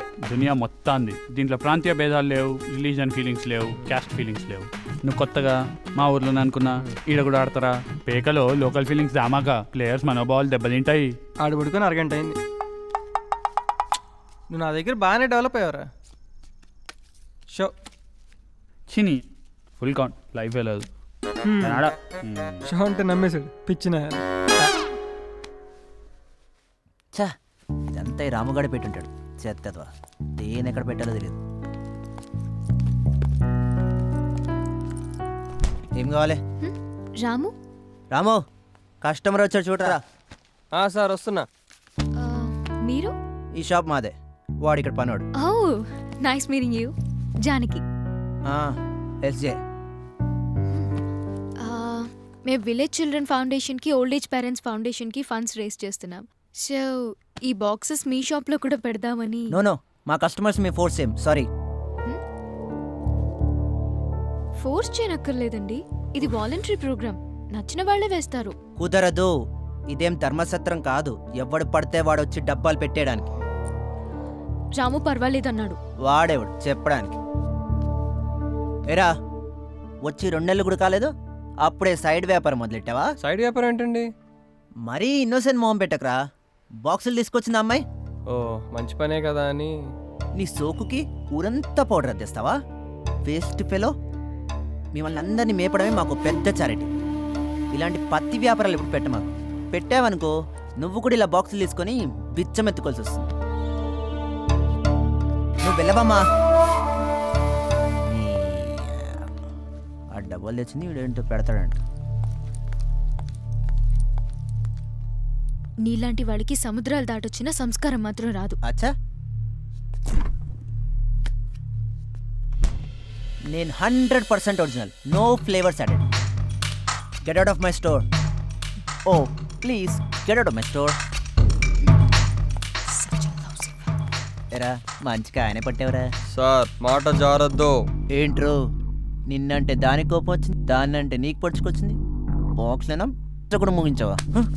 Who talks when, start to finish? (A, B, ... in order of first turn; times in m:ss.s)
0:00.2-0:11.1 A
0:11.4-0:12.4 B
0:14.5-0:15.8 B
0:18.9-0:19.2 A
0:19.8-0:20.9 A
0:21.6-0:22.7 A
0:22.7-0:24.2 B
0:27.9-0:31.4 C
0:35.9-0:36.4 C
0:36.6-0:37.5 D
0:38.1-0:38.4 C
0:39.0-0:40.0 C
0:40.7-0:41.5 E
0:42.2-0:43.1 D
0:43.6-0:44.1 C
0:44.6-0:45.2 C
0:45.4-0:46.9 D
0:47.4-0:47.8 D
0:48.5-0:48.7 C
0:49.2-0:49.6 C
0:51.6-0:59.5 D
0:59.5-1:01.5 C
1:04.6-1:08.5 D
1:08.8-1:09.3 C
1:09.9-1:13.3 C
1:14.8-1:15.8 D
1:16.0-1:17.2 C
1:20.0-1:21.1 C
1:21.6-1:23.1 C
1:23.2-1:24.0 E
1:24.8-1:26.2 C
1:26.8-1:27.8 C
1:28.3-1:29.7 E
1:30.4-1:32.6 C
1:33.2-1:33.9 C
1:34.9-1:36.9 C
1:37.7-1:43.3 C
1:45.6-1:46.2 C
1:48.1-1:49.3 C
1:50.1-1:51.8 C
1:55.8-1:58.6 D
1:58.6-1:58.9 C
2:03.5-2:06.0 C
2:07.2-2:08.0 C
2:09.1-2:11.0 C
2:12.9-2:13.8 D
2:14.6-2:16.1 C
2:16.3-2:17.8 E
2:18.2-2:18.5 C
2:19.3-2:22.0 C
2:22.6-2:24.4 C